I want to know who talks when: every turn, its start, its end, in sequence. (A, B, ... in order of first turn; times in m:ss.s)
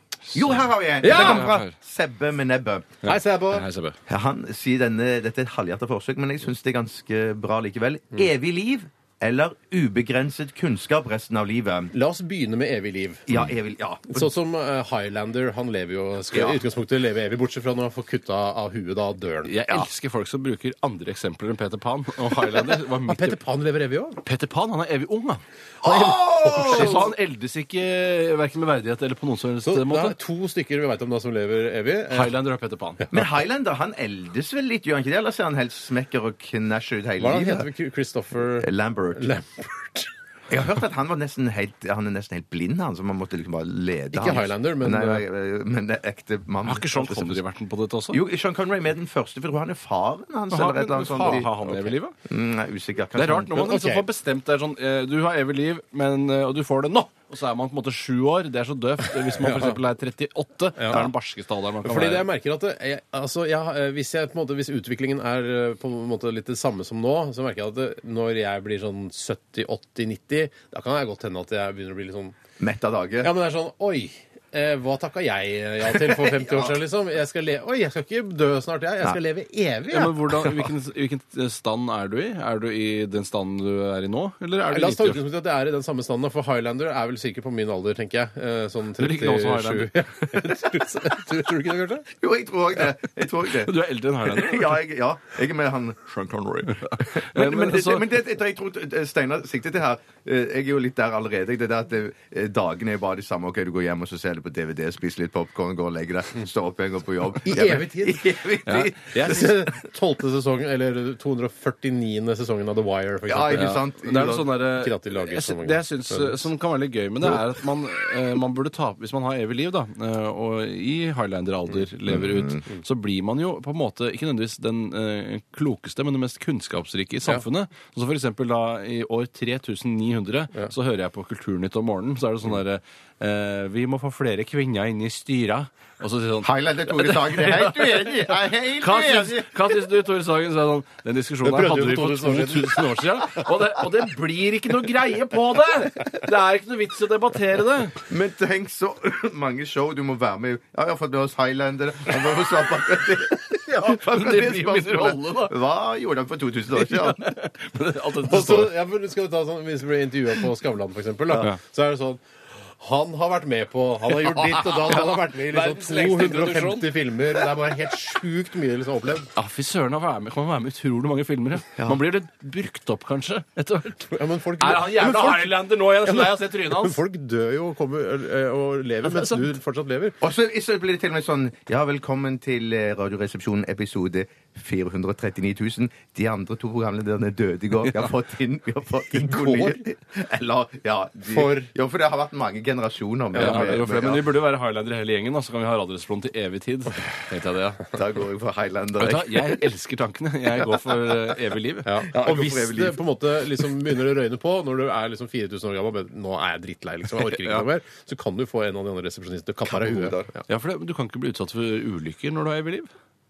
0:00.3-0:01.8 A
0:00.3-0:03.0 B
0:01.0-0:01.5 C
0:03.0-0:03.7 C
0:03.0-0:04.0 A
0:04.1-0:11.9 B
0:11.9-0:13.3 C
0:13.3-0:14.3 B
0:14.1-0:19.5 C
0:16.3-0:16.6 B
0:19.5-0:23.4 A
0:23.1-0:24.2 C
0:24.2-0:25.4 A
0:25.8-0:27.1 B
0:25.8-0:27.1 C
0:26.4-0:30.2 A
0:29.7-0:32.3 C
0:32.1-0:33.0 A
0:33.1-0:37.7 B
0:37.2-0:40.1 C
0:38.6-0:39.3 B
0:40.5-0:47.4 B
0:44.1-0:45.2 C
0:46.6-0:48.2 A
0:48.1-0:53.6 B
0:50.5-0:52.2 A
0:51.2-0:51.6 C
0:53.2-1:02.3 A
0:53.5-0:54.1 C
0:59.4-0:59.8 C
1:00.8-1:01.1 C
1:01.8-1:12.4 C
1:12.6-1:13.3 B
1:13.2-1:20.2 C
1:16.0-1:16.8 B
1:19.9-1:25.2 A
1:24.7-1:32.1 C
1:29.0-1:30.1 A
1:32.2-1:49.7 B
1:33.5-1:34.8 A
1:36.7-1:38.1 A
1:47.4-1:48.4 C
1:48.7-1:49.5 A
1:49.1-1:53.8 C
1:53.3-1:54.5 B
1:53.5-2:28.0 A
1:54.8-1:56.5 C
2:02.1-2:02.6 B
2:16.4-2:19.8 B
2:21.4-2:22.9 C
2:28.1-2:37.4 B
2:33.7-2:35.6 A
2:36.8-2:38.7 A
2:38.2-2:49.3 C
2:44.2-2:46.9 A
2:49.4-2:57.0 A
2:54.1-3:00.2 C
2:59.0-2:59.5 A
3:00.2-3:14.3 B
3:09.1-3:09.8 C
3:11.3-3:11.7 C
3:13.3-3:13.8 C
3:13.4-3:17.9 A
3:17.9-3:19.6 B
3:19.0-3:21.9 A
3:21.8-3:30.3 C
3:22.1-3:23.0 B
3:27.2-3:27.7 A
3:29.6-3:30.4 B
3:30.5-3:32.9 A